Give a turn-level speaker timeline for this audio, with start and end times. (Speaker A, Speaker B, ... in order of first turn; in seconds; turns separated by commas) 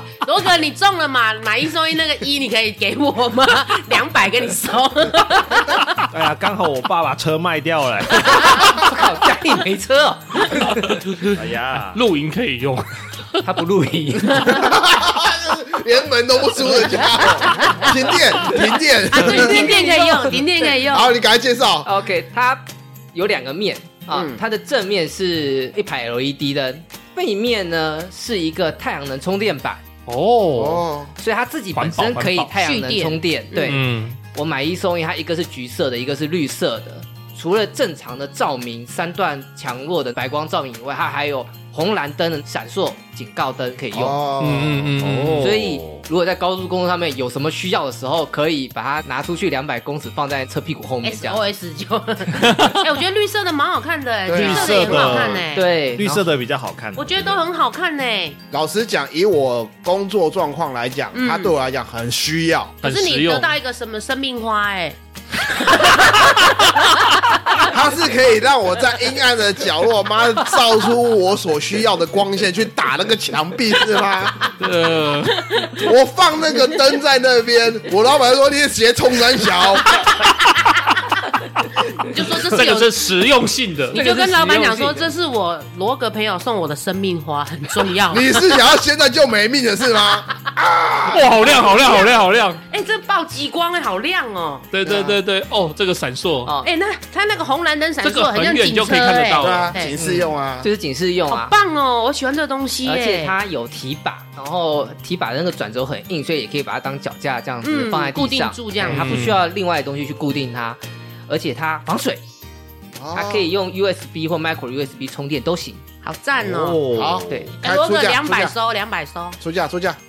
Speaker A: 0.2-6.0, Speaker B: 6.1-8.7, Speaker C: 8.3-10.8, Speaker D: 10.9-13.4, Speaker B: 11.2-12.0, Speaker C: 13.4-14.7, Speaker E: 14.5-19.8, Speaker A: 17.5-17.9, Speaker A: 19.1-21.1, Speaker C: 19.2-20.8, Speaker E: 20.9-21.9, Speaker C: 21.8-29.8, Speaker E: 24.1-24.4, Speaker D: 30.1-30.9, Speaker E: 30.6-31.1, Speaker C: 31.2-44.2, Speaker D: 31.8-32.5, Speaker A: 32.5-33.8, Speaker D: 33.6-34.2, Speaker E: 43.9-44.9, Speaker D: 44.4-45.5, Speaker B: 45.0-46.0, Speaker C: 45.4-51.4, Speaker A: 51.0-55.7, Speaker D: 52.4-52.8, Speaker E: 54.3-55.4, Speaker B: 54.3-57.4, Speaker C: 55.5-56.2, Speaker A: 57.0-58.4, Speaker E: 58.5-62.8, Speaker A: 61.1-61.5, Speaker D: 62.8-63.5, Speaker A: 62.8-65.0, Speaker A: 65.5-67.7, Speaker E: 67.7-74.5, Speaker D: 74.6-75.7, Speaker E: 75.8-80.0, Speaker A: 80.0-81.0, Speaker A: 81.9-83.0, Speaker D: 82.2-84.0, Speaker A: 83.9-88.5, Speaker C: 83.9-85.1, Speaker E: 88.1-91.5, Speaker D: 91.1-92.6, Speaker A: 91.8-92.1, Speaker A: 92.7-94.7, Speaker D: 94.7-96.5, Speaker E: 94.8-95.2, Speaker C: 96.5-96.7, Speaker A: 96.6-100.0, Speaker D: 98.0-99.8, Speaker E: 99.4-100.7, Speaker C: 100.0-101.5, Speaker A: 101.3-103.3, Speaker C: 102.8-112.2, Speaker A: 107.6-109.2, Speaker D: 108.8-109.4, Speaker E: 113.0-113.5, Speaker C: 113.1-115.8, Speaker A: 116.0-116.8, Speaker B: 116.4-117.6, Speaker E: 116.9-118.5, Speaker C: 117.3-117.5, Speaker A: 117.6-119.4, Speaker E: 119.4-120.0